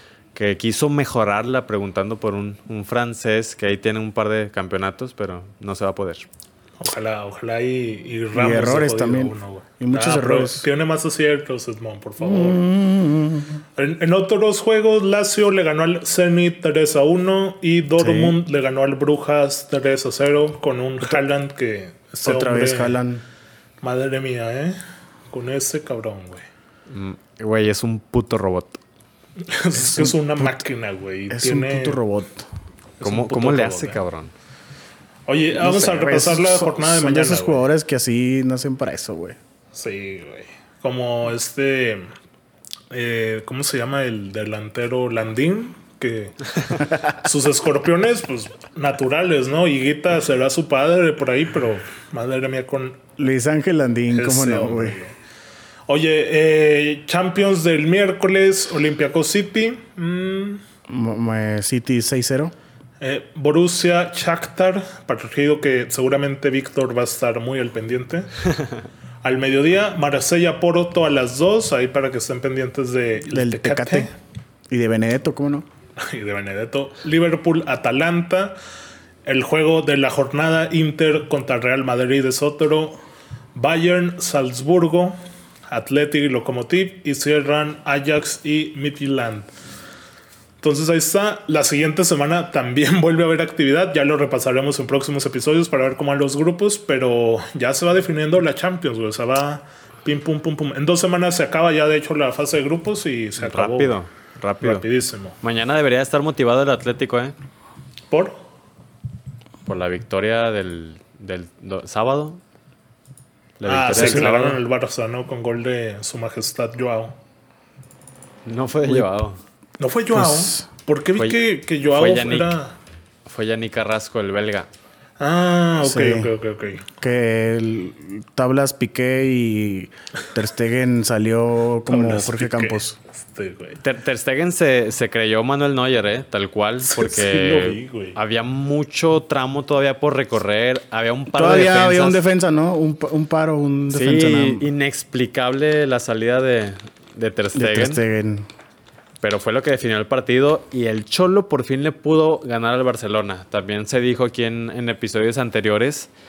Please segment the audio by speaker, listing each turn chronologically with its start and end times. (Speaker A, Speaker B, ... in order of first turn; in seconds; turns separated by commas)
Speaker A: 0.3-6.3, Speaker B: 6.8-12.6, Speaker C: 8.3-10.7, Speaker C: 12.2-13.6, Speaker B: 13.8-23.0, Speaker C: 18.0-18.4, Speaker C: 22.2-23.2, Speaker B: 23.8-24.8, Speaker B: 25.3-26.4, Speaker A: 26.9-28.8, Speaker B: 29.4-32.0, Speaker C: 29.8-30.6, Speaker C: 31.3-32.5, Speaker B: 33.0-34.0, Speaker A: 33.0-34.3, Speaker B: 35.3-37.7, Speaker C: 35.5-39.4, Speaker B: 39.7-42.1, Speaker B: 42.9-53.1, Speaker C: 53.2-55.0, Speaker B: 54.1-55.1, Speaker B: 55.9-60.6, Speaker C: 60.9-62.5, Speaker B: 63.0-68.3, Speaker B: 69.2-74.1, Speaker C: 73.3-74.1, Speaker C: 74.7-75.7, Speaker B: 76.0-78.6, Speaker B: 79.3-83.0, Speaker B: 83.5-85.2, Speaker B: 85.7-89.5, Speaker B: 90.6-104.0, Speaker A: 103.4-104.8, Speaker B: 104.6-105.4, Speaker A: 105.4-107.3, Speaker B: 108.1-108.4, Speaker A: 109.7-112.4, Speaker A: 113.6-114.6, Speaker B: 113.7-117.2, Speaker C: 113.9-114.3, Speaker A: 118.5-119.4, Speaker B: 119.8-122.8, Speaker C: 120.1-120.7, Speaker A: 121.9-122.6, Speaker A: 123.3-124.7, Speaker B: 125.2-126.8, Speaker C: 125.8-126.3, Speaker C: 126.9-133.0, Speaker B: 131.9-133.8, Speaker A: 133.8-142.2, Speaker B: 136.8-138.2, Speaker C: 141.3-144.7, Speaker A: 143.9-148.0, Speaker C: 147.6-148.5, Speaker A: 149.2-156.1